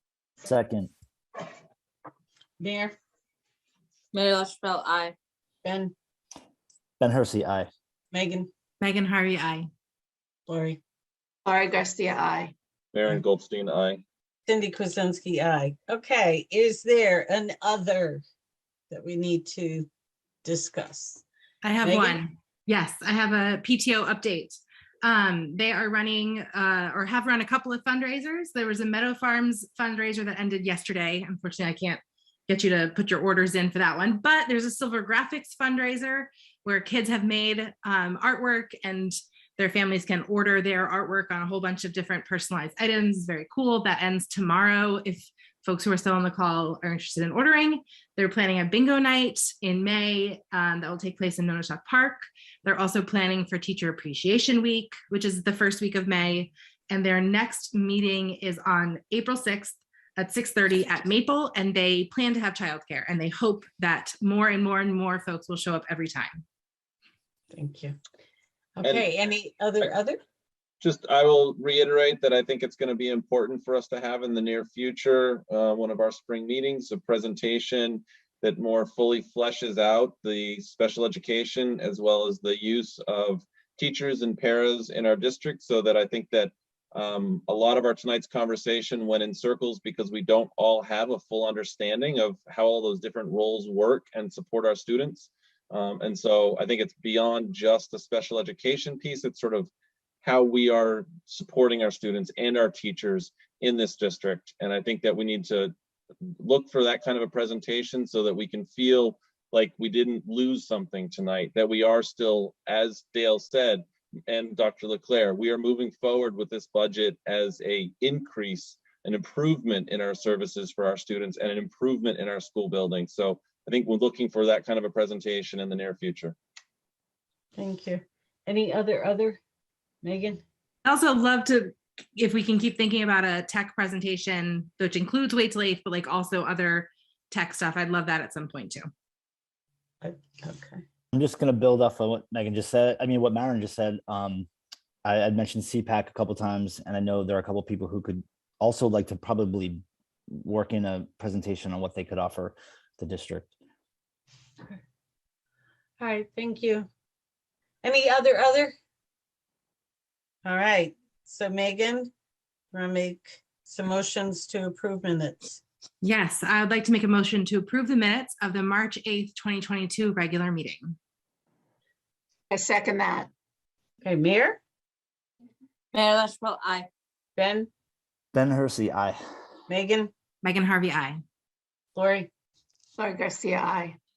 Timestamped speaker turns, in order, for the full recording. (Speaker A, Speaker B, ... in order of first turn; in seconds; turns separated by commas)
Speaker A: 0.4-0.9, Speaker B: 2.6-3.0, Speaker C: 4.1-5.1, Speaker B: 5.6-5.9, Speaker A: 7.0-7.7, Speaker B: 8.1-8.5, Speaker D: 8.8-9.7, Speaker B: 10.5-10.8, Speaker E: 11.4-12.5, Speaker F: 12.9-14.0, Speaker B: 14.4-18.2, Speaker B: 18.9-19.9, Speaker B: 20.4-21.2, Speaker D: 21.6-66.4, Speaker B: 21.8-22.2, Speaker B: 67.5-68.0, Speaker B: 68.8-70.2, Speaker F: 68.8-69.1, Speaker F: 70.8-99.7, Speaker F: 100.2-105.7, Speaker F: 106.4-126.3, Speaker B: 127.5-129.4, Speaker B: 130.0-130.4, Speaker D: 130.8-138.9, Speaker B: 140.0-140.8, Speaker A: 141.1-144.5, Speaker A: 145.0-153.5, Speaker B: 156.0-156.9, Speaker B: 157.8-158.7, Speaker B: 160.4-162.1, Speaker B: 162.7-165.6, Speaker D: 166.0-171.0, Speaker E: 172.5-173.3, Speaker B: 174.0-174.6, Speaker C: 175.9-176.9, Speaker B: 177.4-177.7, Speaker A: 178.3-179.2, Speaker B: 179.7-180.1, Speaker D: 180.4-181.2, Speaker B: 181.9-182.3, Speaker E: 183.0-184.0